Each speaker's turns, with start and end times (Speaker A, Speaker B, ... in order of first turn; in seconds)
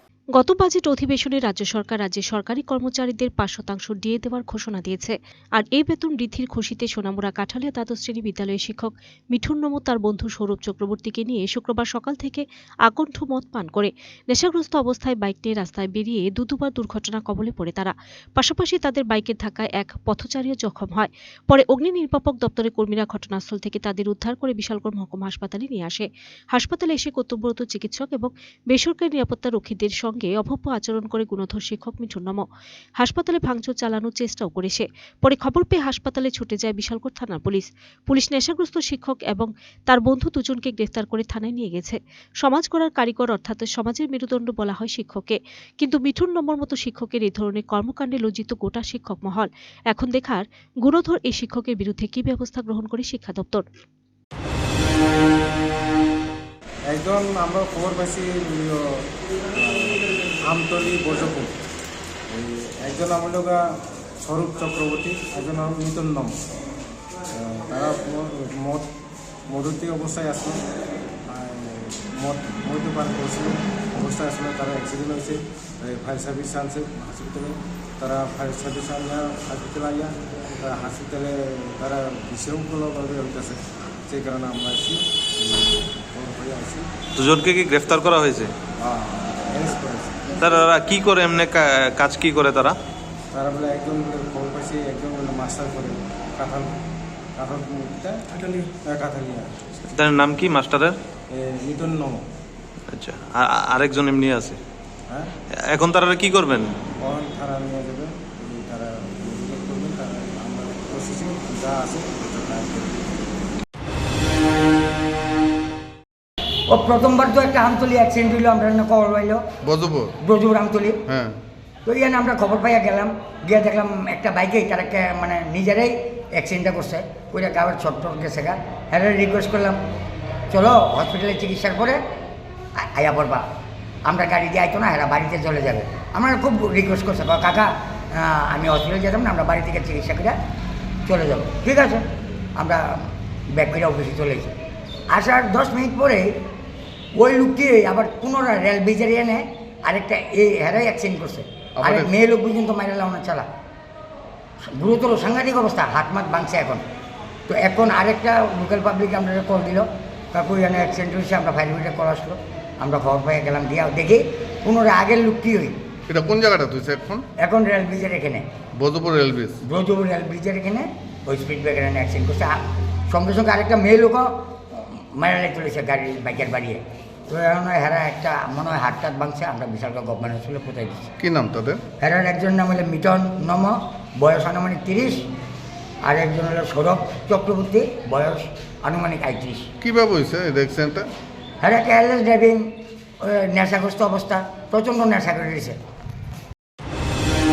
Speaker A: 0.3-32.4, 33.0-53.6
Speaker B: 56.9-61.5, 62.3-66.3, 67.3-68.9, 69.5-70.6, 71.3-86.9, 88.8-90.2, 93.3-96.8, 97.4-99.6, 101.3-102.2, 107.0-113.1
Speaker C: 87.2-88.5, 90.4-92.7, 99.9-100.9, 102.9-104.6, 105.7-106.7
Speaker D: 116.7-119.5, 120.2-121.0, 121.8-129.8, 130.5-132.0, 132.8-133.4, 134.1-140.3, 141.1-142.0, 142.6-144.5, 145.1-146.3, 147.2-153.4, 154.8-156.8, 157.5-165.8, 167.4-168.4, 169.6-172.6, 173.1-181.1, 182.0-185.3, 186.0-189.7, 191.6-192.6, 193.2-195.8
Speaker E: 119.6-120.2, 121.1-121.3, 151.8-152.1, 166.1-167.2, 168.8-169.6, 181.2-181.8, 189.8-191.1